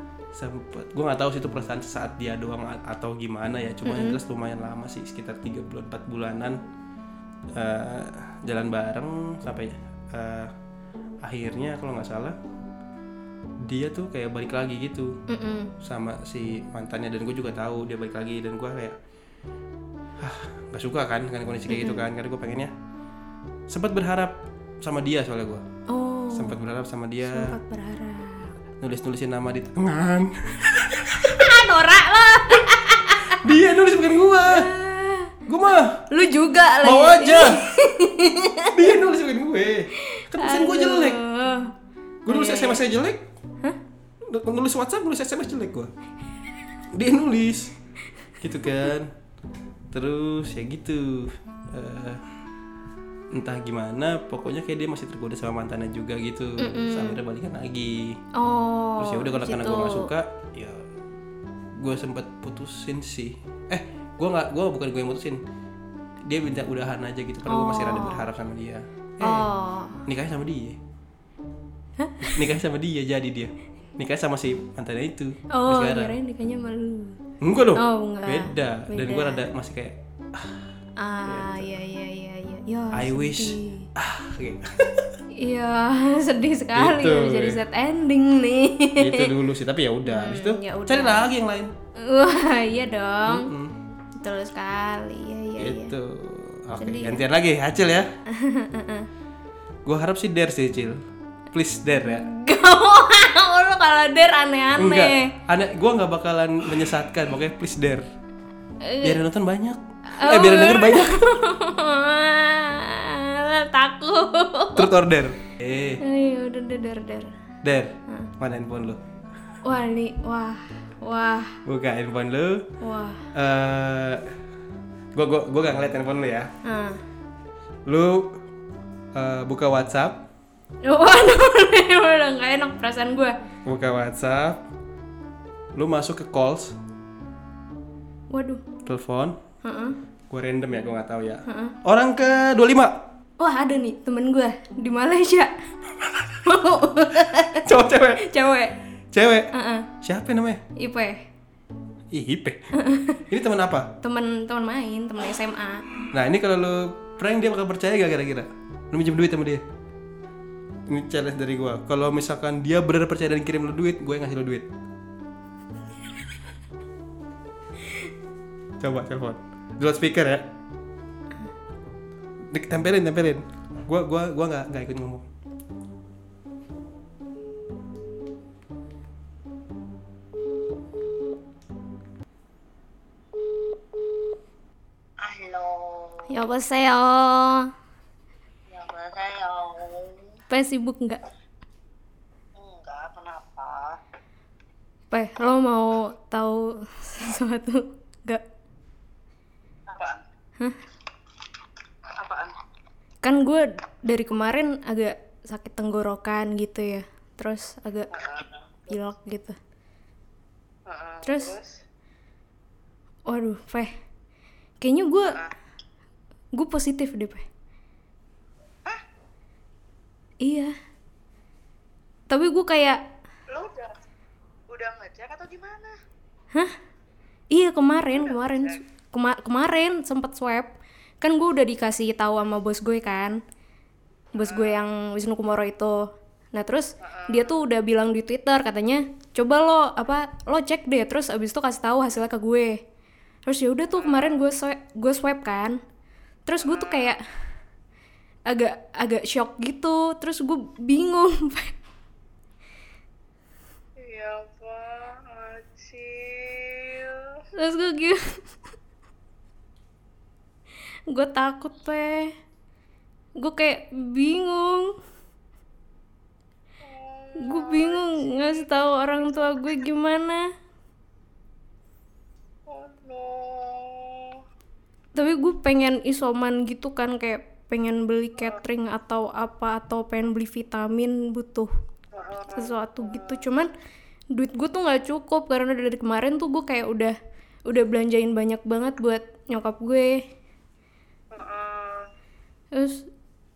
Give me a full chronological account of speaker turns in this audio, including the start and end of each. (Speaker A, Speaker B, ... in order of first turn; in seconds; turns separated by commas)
Speaker A: 0.3-6.6, Speaker B: 3.8-4.2, Speaker A: 7.5-10.5, Speaker A: 11.2-12.4, Speaker A: 13.6-15.2, Speaker B: 15.3-15.7, Speaker A: 15.8-18.9, Speaker A: 20.2-22.7, Speaker B: 21.7-22.0, Speaker A: 23.7-25.6, Speaker B: 25.9-26.6, Speaker A: 26.3-27.5, Speaker B: 27.3-28.5, Speaker A: 28.8-31.5, Speaker B: 31.2-33.4, Speaker A: 33.4-34.7, Speaker B: 34.4-35.3, Speaker A: 35.5-36.0, Speaker B: 36.1-38.9, Speaker A: 36.8-37.6, Speaker A: 38.7-41.2, Speaker B: 40.1-41.7, Speaker A: 42.2-43.2, Speaker B: 42.3-42.8, Speaker A: 44.2-45.9, Speaker A: 46.9-47.7, Speaker A: 48.4-49.1, Speaker A: 49.9-52.2, Speaker A: 53.3-58.2, Speaker B: 56.6-57.2, Speaker B: 58.3-60.1, Speaker A: 59.0-60.9, Speaker A: 61.8-65.4, Speaker A: 66.2-69.5, Speaker B: 67.5-68.2, Speaker B: 69.2-70.0, Speaker A: 70.0-70.8, Speaker B: 72.0-72.4, Speaker A: 72.2-76.1, Speaker B: 75.5-77.2, Speaker A: 77.4-80.6, Speaker B: 77.8-79.4, Speaker B: 81.0-83.9, Speaker A: 81.2-81.7, Speaker A: 82.9-85.1, Speaker B: 85.4-89.3, Speaker A: 86.7-87.6, Speaker A: 89.0-91.7, Speaker B: 90.0-91.3, Speaker B: 92.0-93.5, Speaker A: 93.3-93.7, Speaker B: 94.2-95.9, Speaker A: 95.6-98.1, Speaker B: 96.8-97.2, Speaker B: 98.3-99.1, Speaker A: 99.8-102.3, Speaker B: 102.0-105.3, Speaker A: 104.8-108.0, Speaker B: 108.8-109.2, Speaker A: 109.0-111.2, Speaker B: 110.1-114.9, Speaker A: 114.7-116.0, Speaker B: 116.0-117.3, Speaker A: 117.6-119.0, Speaker B: 119.6-121.6, Speaker A: 121.6-122.7, Speaker B: 122.8-123.2, Speaker A: 123.3-124.3, Speaker A: 125.1-126.5, Speaker B: 126.6-127.0, Speaker A: 127.8-128.4, Speaker A: 129.1-130.2, Speaker B: 130.8-133.4, Speaker A: 133.6-134.6, Speaker A: 135.7-136.8, Speaker B: 138.3-138.6, Speaker A: 138.8-139.4, Speaker B: 139.6-140.0, Speaker A: 140.3-143.0, Speaker B: 141.5-141.7, Speaker B: 143.4-145.5, Speaker B: 146.4-147.7, Speaker A: 147.6-148.2, Speaker B: 148.2-148.7, Speaker A: 149.1-149.5, Speaker B: 149.5-149.9, Speaker A: 150.0-150.6, Speaker B: 150.8-151.2, Speaker A: 152.1-152.6, Speaker B: 152.7-153.2, Speaker A: 153.3-153.9, Speaker B: 154.0-155.8, Speaker A: 156.1-159.6, Speaker A: 160.9-164.7, Speaker A: 168.8-170.5, Speaker A: 172.5-175.2, Speaker C: 185.2-186.3, Speaker B: 186.3-187.7, Speaker C: 188.7-190.4, Speaker B: 190.5-191.2, Speaker C: 192.5-194.0, Speaker B: 195.1-198.4, Speaker C: 199.9-200.2, Speaker C: 202.1-202.6, Speaker B: 203.2-208.1, Speaker C: 208.1-209.0, Speaker B: 208.9-209.6, Speaker C: 210.8-211.8, Speaker B: 211.2-211.5, Speaker B: 213.3-213.9, Speaker B: 214.8-215.4, Speaker B: 216.5-217.4, Speaker B: 220.4-220.7, Speaker B: 222.3-223.0, Speaker C: 223.5-224.0, Speaker C: 224.7-225.9, Speaker B: 227.5-233.4, Speaker C: 228.1-228.8, Speaker B: 234.3-242.8, Speaker C: 234.4-234.8, Speaker C: 237.0-237.6, Speaker B: 243.4-245.8, Speaker C: 243.9-244.4, Speaker B: 246.4-247.2, Speaker C: 246.6-247.2, Speaker B: 248.5-251.7, Speaker C: 254.0-257.4, Speaker B: 257.6-258.4, Speaker B: 261.1-262.3, Speaker B: 263.4-264.9, Speaker C: 266.8-269.8, Speaker B: 267.4-270.5, Speaker C: 272.7-274.4, Speaker B: 275.1-281.7, Speaker C: 282.1-283.5, Speaker B: 282.5-283.7, Speaker B: 284.3-290.2, Speaker C: 291.3-292.1, Speaker B: 292.7-293.0